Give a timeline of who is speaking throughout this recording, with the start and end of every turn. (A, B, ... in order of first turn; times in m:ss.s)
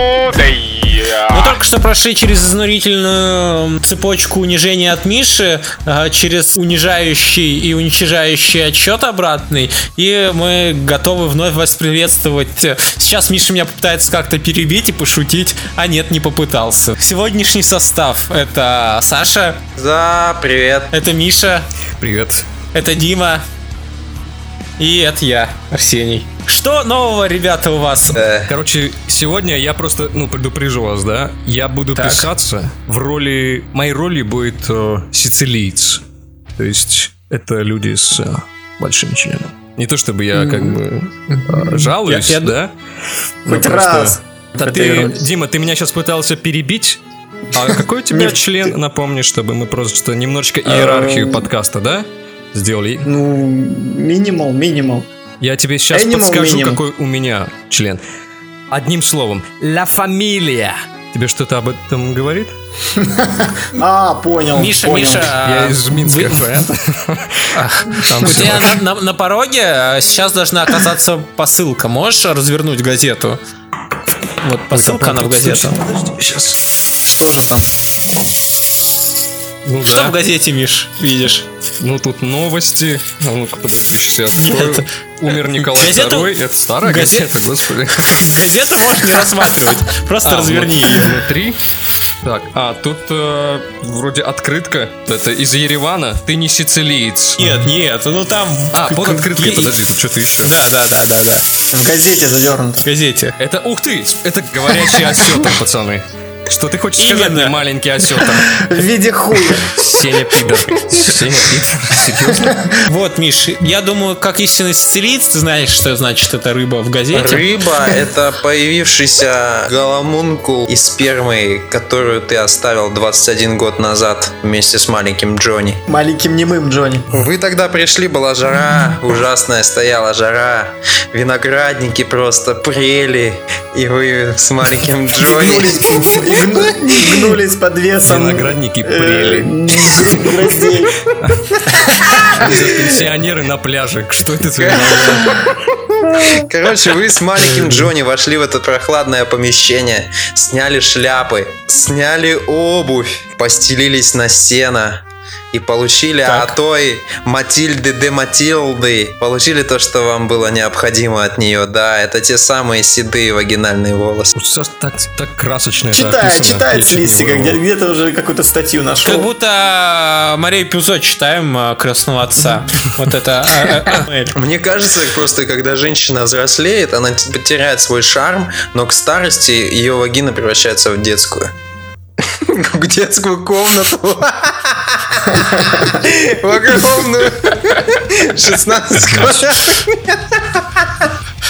0:01.3-0:19.6 A
0:19.8-0:20.9 B
0:20.9-0:21.7 A
0:22.0-0:22.5 C
0:22.7-0:23.4 A
0:24.8-0:28.2 A
0:28.1-0:28.5 B
0:28.5-0:36.0 C
0:31.9-0:32.3 A
0:36.6-0:42.7 C
0:40.3-0:40.8 A
0:41.3-0:42.5 A
0:43.4-0:47.0 C
0:43.5-0:45.2 D
0:47.5-0:53.1 C
0:48.1-0:48.7 D
0:50.7-0:51.4 D
0:53.0-0:55.1 D
0:55.4-0:58.0 C
0:55.9-0:56.8 D
0:58.7-1:02.5 C
1:03.0-1:05.3 D
1:04.6-1:06.6 A
1:05.4-1:08.8 C
1:07.5-1:13.4 A
1:14.4-1:15.8 A
1:14.7-1:16.6 C
1:17.0-1:17.7 D
1:19.6-1:20.1 C
1:19.8-1:21.5 A
1:21.8-1:28.2 C
1:24.3-1:27.3 A
1:28.0-1:31.2 A
1:30.2-1:31.6 C
1:32.2-1:37.6 C
1:37.4-1:39.7 A
1:38.7-1:40.5 C
1:40.4-1:41.4 A
1:41.7-1:42.9 D
1:42.8-1:43.4 A
1:43.4-1:48.6 C
1:47.0-1:47.6 A
1:48.4-1:49.8 D
1:49.6-1:52.6 C
1:52.8-1:57.4 A
1:57.1-2:05.8 B
2:05.9-2:07.1 D
2:07.1-2:16.5 B
2:15.2-2:21.0 D
2:18.0-2:20.3 C
2:21.2-2:25.5 C
2:24.6-2:44.3 B
2:36.2-2:36.5 A
2:44.3-2:47.6 C
2:45.9-2:49.3 D
2:49.0-2:54.4 A
2:54.3-3:01.5 B
3:02.2-3:11.1 B
3:09.0-3:09.4 C